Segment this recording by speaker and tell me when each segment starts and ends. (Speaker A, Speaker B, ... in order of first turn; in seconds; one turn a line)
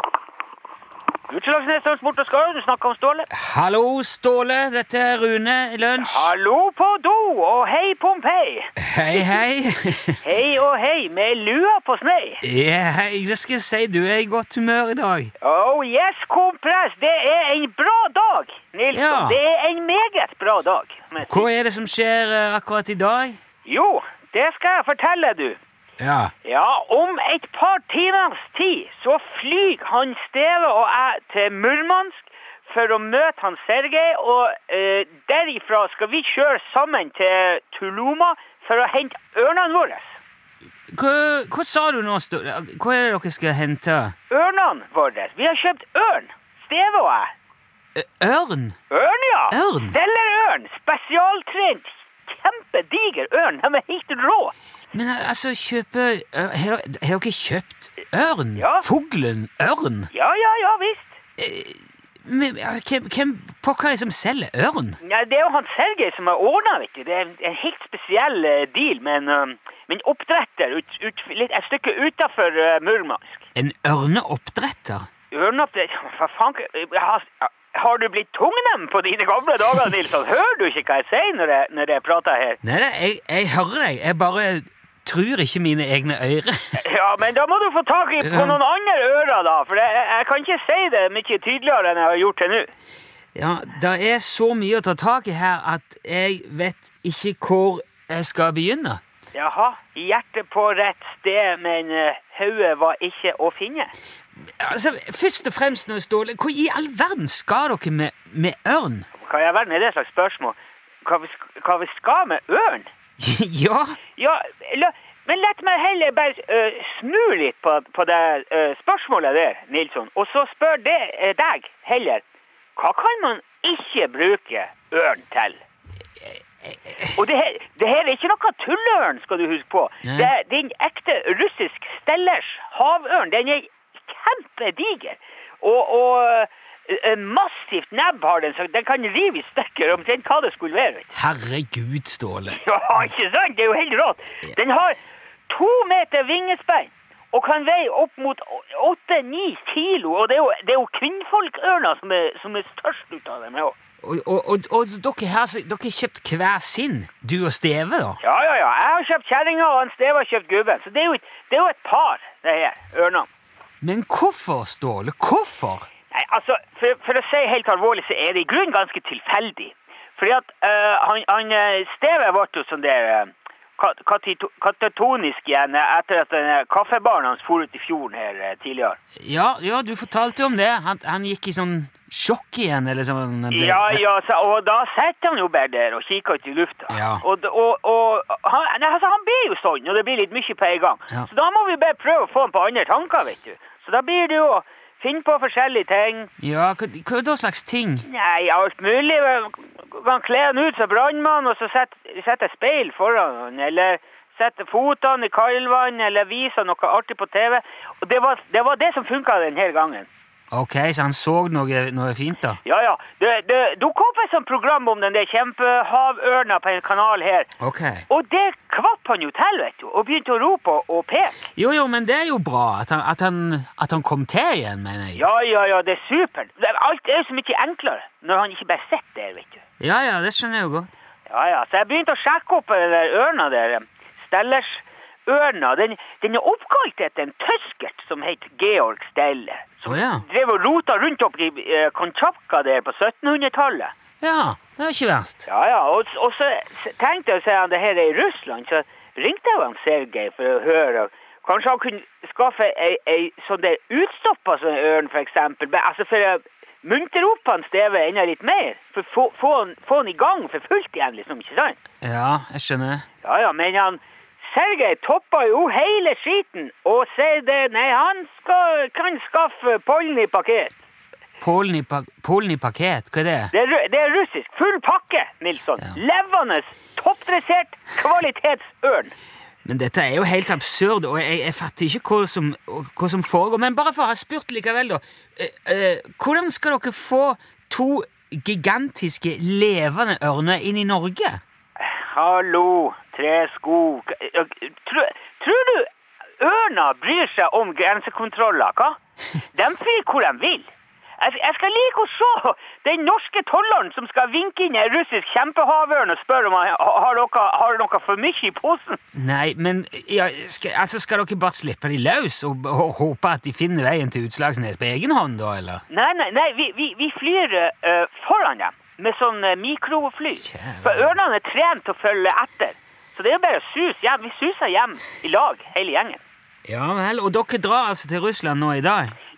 Speaker A: 1.3-3.3
Speaker B: 3.3-6.3
Speaker A: 6.0-9.4
Speaker B: 8.8-10.2
Speaker A: 10.2-12.4
Speaker B: 12.4-15.3
Speaker A: 15.4-21.5
Speaker B: 18.9-19.4
Speaker B: 21.2-23.4
Speaker A: 23.6-25.6
Speaker B: 26.0-26.3
Speaker A: 26.4-40.2
Speaker B: 40.9-44.1
Speaker A: 44.3-47.3
Speaker B: 48.0-48.8
Speaker A: 48.9-54.5
Speaker B: 49.5-50.0
Speaker B: 54.9-60.1
Speaker A: 58.5-58.9
Speaker A: 60.1-61.1
Speaker B: 61.4-65.0
Speaker A: 65.0-73.5
Speaker B: 73.5-75.1
Speaker A: 75.3-82.6
Speaker B: 82.6-86.8
Speaker A: 86.8-92.7
Speaker B: 88.2-88.6
Speaker B: 93.3-99.0
Speaker A: 99.3-103.9
Speaker B: 104.5-109.0
Speaker A: 109.1-112.9
Speaker B: 113.2-114.0
Speaker A: 114.2-122.2
Speaker A: 122.8-125.6
Speaker A: 127.0-141.1
Speaker B: 130.0-130.3
Speaker B: 141.1-142.6
Speaker A: 142.5-153.8
Speaker B: 154.0-158.2
Speaker A: 158.2-163.3
Speaker B: 163.8-165.9
Speaker A: 166.1-179.0
Speaker B: 179.2-184.0
Speaker A: 183.5-196.3
Speaker B: 186.9-187.2
Speaker B: 196.4-198.1
Speaker A: 198.0-210.1
Speaker B: 210.5-212.6
Speaker A: 212.6-217.5
Speaker B: 217.6-218.0
Speaker A: 218.1-221.5
Speaker B: 221.5-225.2
Speaker A: 225.2-229.6
Speaker B: 229.8-230.9
Speaker A: 231.3-243.9
Speaker B: 239.8-240.2
Speaker B: 244.2-245.5
Speaker A: 245.4-261.8
Speaker B: 262.0-263.1
Speaker A: 263.2-270.8
Speaker B: 271.4-273.5
Speaker A: 273.5-279.1
Speaker B: 279.6-291.4
Speaker A: 291.8-299.0
Speaker A: 299.5-309.0
Speaker B: 309.1-315.8
Speaker A: 315.9-326.2
Speaker B: 320.4-321.2
Speaker B: 326.6-329.1